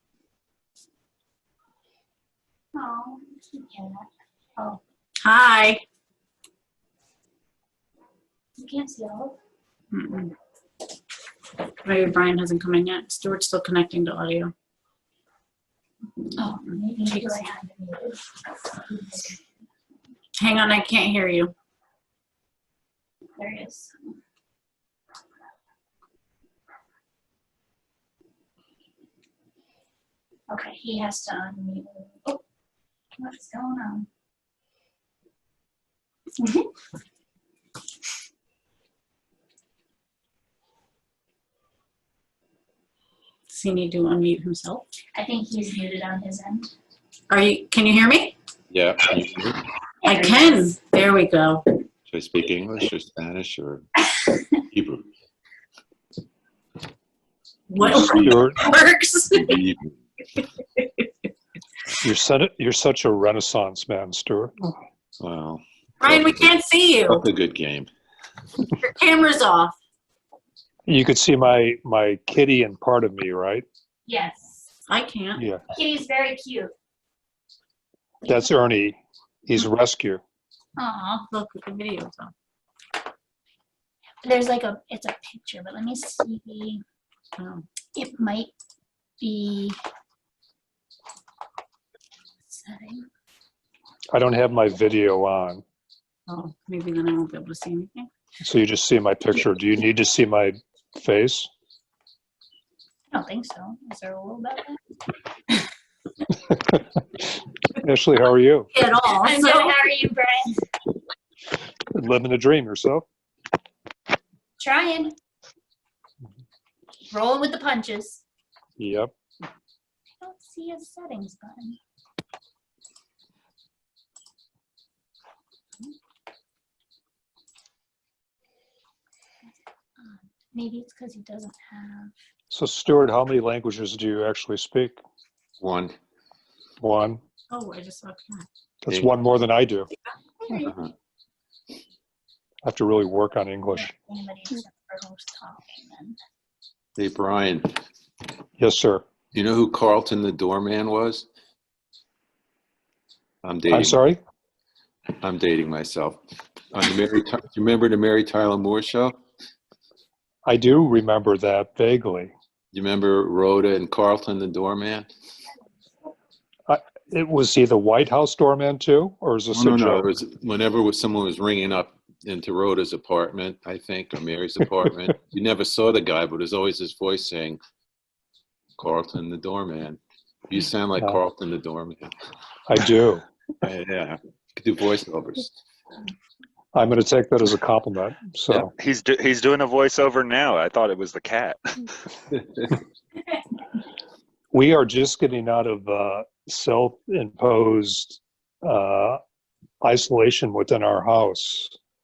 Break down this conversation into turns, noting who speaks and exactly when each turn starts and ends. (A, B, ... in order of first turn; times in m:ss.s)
0:02.7-0:04.8 A
0:05.2-0:05.8 B
0:08.6-0:09.4 A
0:09.9-0:10.3 B
0:11.8-0:14.5 B
0:16.3-0:19.4 A
0:17.1-0:17.5 B
0:20.4-0:21.5 B
0:23.4-0:24.2 A
0:30.5-0:32.4 A
0:33.1-0:34.1 A
0:36.4-0:36.7 A
0:43.5-0:44.9 B
0:45.1-0:46.7 A
0:47.3-0:48.4 B
0:48.7-0:49.6 C
0:50.0-0:50.7 A
0:50.0-0:51.8 B
0:52.1-0:53.9 C
0:54.7-0:55.0 C
0:57.7-0:59.6 B
0:57.8-0:58.6 D
0:58.0-0:58.3 C
0:59.4-1:00.0 C
1:00.8-1:01.0 B
1:02.0-1:04.7 D
1:05.2-1:06.5 C
1:06.0-1:07.2 B
1:07.1-1:07.9 C
1:08.6-1:09.8 B
1:10.9-1:13.6 D
1:14.0-1:14.7 A
1:14.9-1:15.4 B
1:15.4-1:15.6 D
1:15.7-1:16.7 A
1:18.2-1:20.2 D
1:20.8-1:21.3 A
1:21.3-1:22.3 B
1:24.2-1:26.8 A
1:27.4-1:27.6 B
1:27.9-1:28.5 A
1:29.2-1:29.8 A
1:32.4-1:33.0 A
1:34.1-1:35.6 D
1:36.3-1:38.1 B
1:38.4-1:41.5 D
1:43.1-1:44.8 A
1:46.5-1:47.2 D
1:47.8-1:48.7 D
1:48.7-1:49.8 B
1:49.1-1:50.6 A
1:51.9-1:53.0 D
1:54.6-1:55.2 A
1:57.1-1:58.2 A
1:58.8-1:59.1 D
2:00.2-2:01.8 A
2:10.0-2:12.1 A
2:12.5-2:15.0 D
2:15.6-2:15.9 C
2:16.8-2:17.2 D
2:17.5-2:18.4 B
2:18.8-2:19.9 D
2:20.4-2:20.7 A
2:20.6-2:20.9 C
2:22.6-2:23.9 D
2:23.7-2:26.2 A
2:27.0-2:27.8 C
2:28.6-2:29.0 D
2:29.3-2:31.3 C
2:33.4-2:34.0 C
2:33.7-2:34.2 D
2:35.2-2:36.2 C
2:36.7-2:39.1 C
2:40.4-2:42.3 D
2:42.7-2:45.1 C
2:46.7-2:50.0 D
2:49.5-2:57.6 C
2:58.8-3:02.1 C
3:02.7-3:03.2 D
3:03.6-3:05.5 C
3:06.7-3:08.7 D
3:08.5-3:11.6 E
3:14.5-3:19.2 D
3:19.8-3:21.7 D